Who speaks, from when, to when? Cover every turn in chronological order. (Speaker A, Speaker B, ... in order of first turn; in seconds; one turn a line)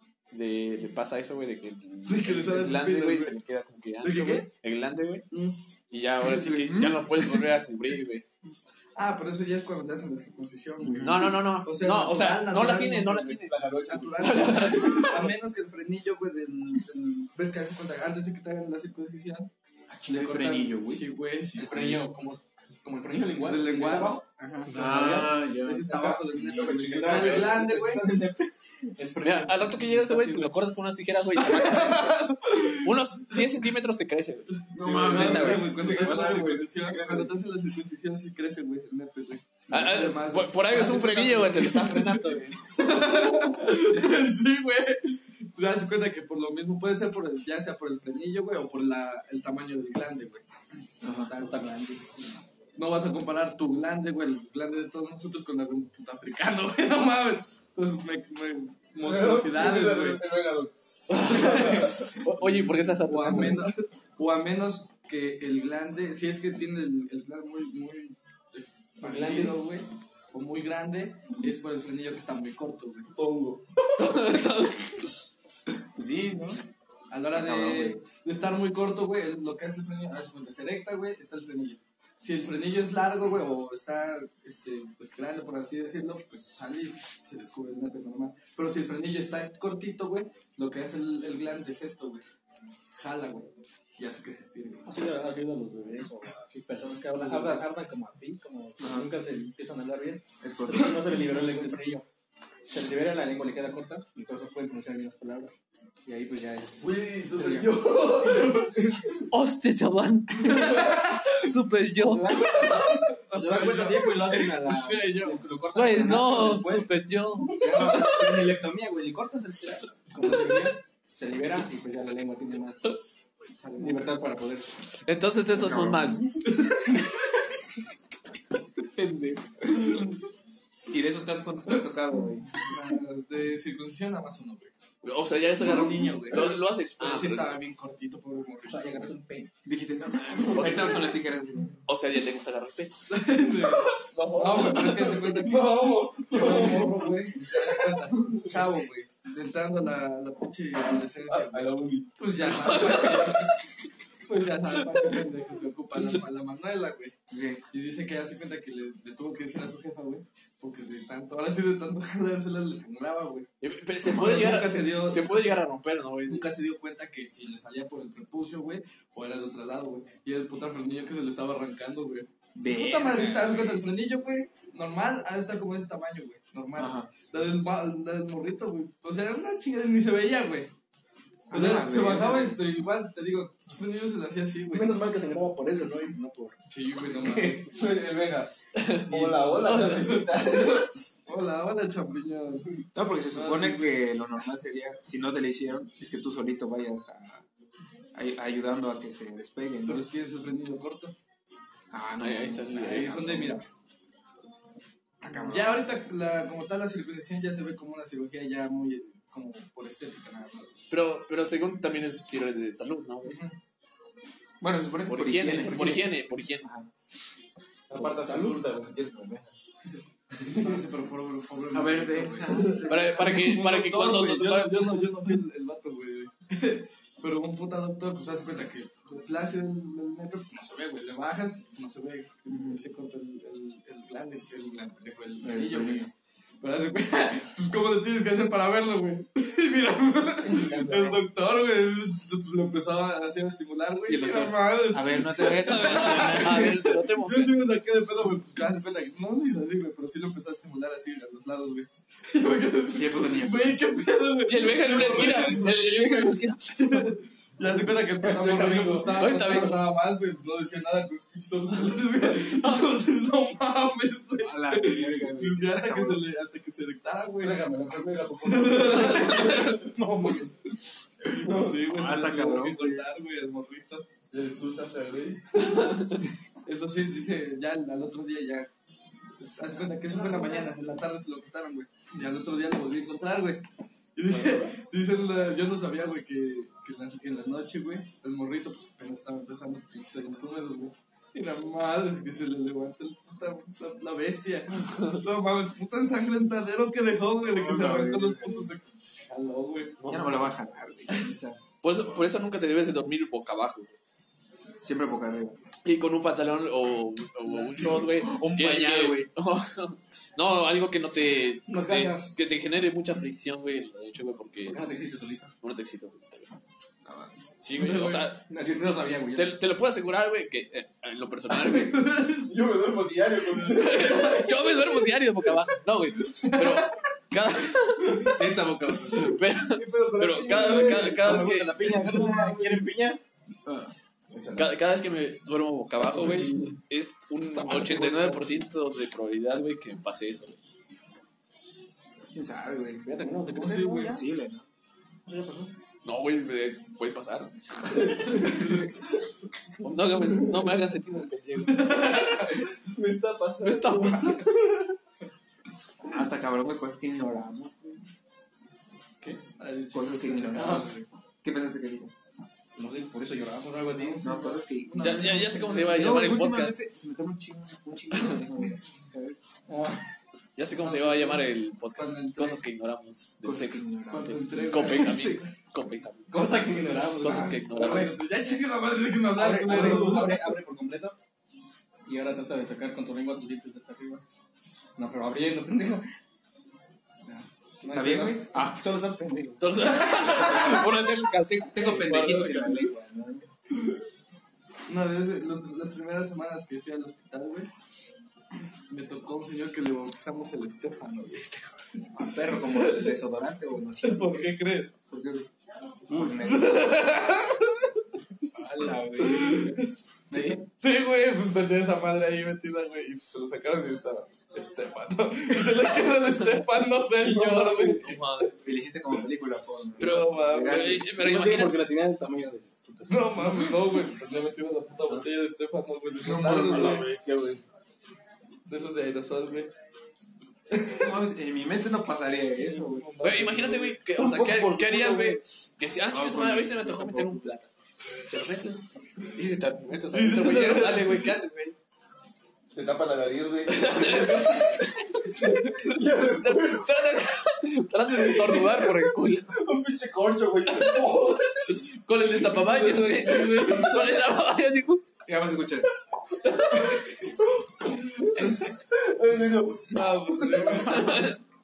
Speaker A: 0.3-5.2
Speaker B: 2.0-3.4
Speaker B: 4.0-4.5
Speaker B: 5.3-5.6
Speaker A: 5.9-8.2
Speaker C: 6.2-7.3
Speaker B: 8.9-19.5
Speaker C: 10.8-11.4
Speaker A: 11.0-15.3
Speaker D: 13.5-15.3
Speaker C: 19.9-21.0
Speaker B: 20.0-22.1
Speaker E: 21.5-25.4
Speaker B: 23.4-28.0
Speaker C: 24.7-27.4
Speaker E: 25.9-30.6
Speaker A: 29.2-36.2
Speaker B: 31.4-33.4
Speaker D: 34.7-37.3
Speaker B: 34.8-50.4
Speaker C: 35.9-36.5
Speaker A: 39.7-42.9
Speaker C: 51.0-51.3
Speaker B: 51.1-52.1
Speaker B: 52.8-60.2
Speaker D: 59.0-61.8
Speaker A: 61.1-63.7
Speaker B: 61.2-62.5
Speaker B: 63.0-73.1
Speaker E: 69.0-69.6
Speaker D: 73.1-73.9
Speaker A: 74.0-75.2
Speaker C: 75.9-76.6
Speaker B: 77.1-92.2
Speaker C: 77.3-78.0
Speaker B: 93.0-94.9
Speaker E: 94.8-102.0
Speaker B: 97.2-97.7
Speaker C: 98.8-99.1
Speaker C: 100.4-101.1
Speaker B: 100.7-101.8
Speaker E: 102.7-105.5
Speaker E: 106.0-107.8
Speaker D: 106.8-109.1
Speaker B: 108.3-108.9
Speaker A: 109.3-112.4
Speaker B: 110.4-116.5
Speaker E: 112.0-116.9
Speaker A: 115.7-118.5
Speaker E: 117.4-123.0
Speaker D: 117.5-118.1
Speaker B: 120.2-120.6
Speaker B: 123.6-124.1
Speaker E: 123.7-124.7
Speaker A: 125.0-126.2
Speaker C: 125.5-126.2
Speaker B: 126.5-127.0
Speaker D: 128.9-129.4
Speaker C: 130.9-132.5
Speaker B: 132.6-134.7
Speaker A: 135.0-137.6
Speaker B: 135.6-139.2
Speaker E: 138.7-139.5
Speaker C: 139.6-141.7
Speaker D: 140.5-141.0
Speaker A: 140.5-141.1
Speaker A: 141.8-142.9
Speaker B: 143.1-153.5
Speaker D: 144.1-148.7
Speaker A: 144.6-145.0
Speaker E: 146.3-147.3
Speaker D: 151.3-152.1
Speaker A: 152.4-153.5
Speaker D: 152.7-153.0
Speaker B: 154.2-157.1
Speaker A: 154.8-155.1
Speaker C: 157.3-157.6
Speaker B: 157.7-163.5
Speaker A: 163.6-166.5
Speaker B: 164.1-165.4
Speaker B: 166.3-180.7
Speaker C: 172.5-173.7
Speaker C: 176.8-177.1
Speaker C: 181.5-182.6
Speaker B: 181.5-185.0
Speaker E: 184.7-186.6
Speaker B: 186.7-187.7
Speaker A: 187.2-187.6
Speaker D: 187.7-188.5
Speaker A: 188.7-189.1
Speaker D: 189.1-190.9
Speaker B: 189.1-194.0
Speaker A: 189.6-190.2
Speaker C: 192.9-197.5
Speaker C: 198.1-200.1
Speaker B: 199.8-201.1
Speaker C: 201.9-203.6
Speaker A: 202.2-203.2
Speaker B: 202.8-203.6
Speaker C: 205.2-205.9
Speaker B: 205.3-210.8
Speaker A: 210.9-213.4
Speaker B: 213.2-213.5
Speaker C: 214.6-216.1
Speaker A: 215.1-216.7
Speaker C: 216.6-216.9
Speaker D: 217.9-219.5
Speaker E: 217.9-218.6
Speaker D: 220.3-220.8
Speaker B: 220.5-236.1
Speaker C: 221.7-223.2
Speaker A: 222.9-225.0
Speaker C: 232.5-232.8
Speaker C: 235.4-236.1
Speaker B: 236.6-267.6
Speaker C: 244.1-246.8
Speaker A: 245.4-247.7
Speaker C: 252.9-253.8
Speaker A: 254.5-257.1
Speaker E: 258.2-259.3
Speaker A: 259.1-259.9
Speaker A: 261.8-262.9
Speaker C: 264.4-266.2
Speaker D: 267.4-269.8
Speaker B: 268.4-274.1
Speaker A: 269.1-269.8
Speaker D: 271.4-271.7
Speaker C: 271.9-273.1
Speaker D: 274.3-275.4
Speaker A: 275.8-276.1
Speaker B: 276.6-278.7
Speaker B: 279.4-283.6
Speaker E: 280.1-280.7
Speaker B: 284.1-300.0
Speaker A: 294.8-295.2
Speaker C: 297.5-298.7
Speaker A: 300.0-300.5
Speaker C: 300.1-301.6
Speaker A: 301.8-303.9
Speaker C: 304.8-305.6
Speaker A: 305.8-314.8
Speaker C: 307.8-309.3
Speaker E: 311.7-312.3
Speaker E: 314.6-315.5
Speaker A: 315.6-316.5
Speaker C: 317.0-317.5
Speaker A: 317.6-318.4
Speaker B: 317.7-318.3
Speaker E: 318.4-319.6
Speaker A: 319.3-322.0
Speaker B: 321.5-322.5
Speaker D: 322.3-324.8
Speaker A: 323.6-328.4
Speaker B: 326.3-326.9
Speaker C: 328.2-329.4
Speaker A: 329.2-331.9
Speaker D: 329.6-331.5
Speaker E: 330.6-333.2
Speaker B: 331.9-332.6
Speaker D: 332.0-332.8
Speaker C: 333.6-333.9
Speaker D: 334.3-334.7
Speaker A: 334.5-340.6
Speaker B: 336.2-336.7
Speaker E: 337.5-338.4
Speaker C: 342.3-343.1
Speaker E: 343.0-344.2
Speaker B: 343.3-344.2
Speaker C: 343.8-344.6
Speaker E: 345.3-345.7
Speaker A: 346.0-348.7
Speaker B: 348.0-348.9
Speaker A: 349.8-352.5
Speaker B: 351.6-352.8
Speaker D: 352.9-354.5
Speaker A: 353.6-354.5
Speaker C: 356.0-358.0
Speaker B: 359.4-361.1
Speaker C: 359.9-360.9
Speaker C: 361.4-362.1
Speaker E: 362.8-364.3
Speaker B: 363.7-366.1
Speaker C: 364.2-368.8
Speaker A: 365.0-366.8
Speaker A: 368.1-368.4
Speaker B: 369.1-369.4
Speaker E: 369.7-370.0
Speaker A: 370.6-376.6
Speaker B: 370.7-372.6
Speaker C: 373.4-375.1
Speaker B: 374.1-375.5
Speaker E: 376.3-378.1
Speaker B: 376.3-380.5
Speaker A: 377.2-378.2
Speaker E: 379.4-381.1
Speaker C: 379.4-380.3
Speaker E: 382.0-384.2
Speaker E: 385.0-386.1
Speaker E: 387.2-389.9
Speaker C: 387.9-388.9
Speaker A: 389.6-392.9
Speaker B: 390.1-390.7
Speaker C: 391.7-393.4
Speaker E: 391.9-393.4
Speaker B: 394.9-397.7
Speaker B: 398.9-403.2
Speaker C: 402.1-404.6
Speaker B: 404.0-404.9
Speaker C: 405.1-405.5
Speaker C: 406.1-406.8
Speaker B: 406.1-407.9
Speaker B: 408.6-418.4
Speaker C: 408.6-409.7
Speaker A: 410.3-410.6
Speaker A: 417.4-418.6
Speaker D: 417.6-417.9
Speaker C: 418.6-421.1
Speaker B: 420.0-421.0
Speaker A: 420.0-421.8
Speaker E: 421.1-423.7
Speaker B: 423.1-427.1
Speaker D: 426.2-427.6
Speaker B: 428.7-429.7
Speaker C: 430.8-433.1
Speaker B: 432.5-434.0
Speaker A: 433.2-437.7
Speaker E: 434.1-435.4
Speaker C: 436.1-436.7
Speaker E: 436.8-437.4
Speaker A: 438.2-438.8
Speaker A: 439.3-441.8
Speaker B: 440.1-441.3
Speaker D: 442.7-447.0
Speaker A: 443.7-449.6
Speaker D: 448.1-451.8
Speaker A: 450.7-451.1
Speaker A: 451.7-455.0
Speaker B: 452.4-453.9
Speaker C: 455.2-455.9
Speaker D: 456.7-456.9
Speaker D: 457.8-461.1
Speaker B: 459.9-461.3
Speaker A: 460.8-461.4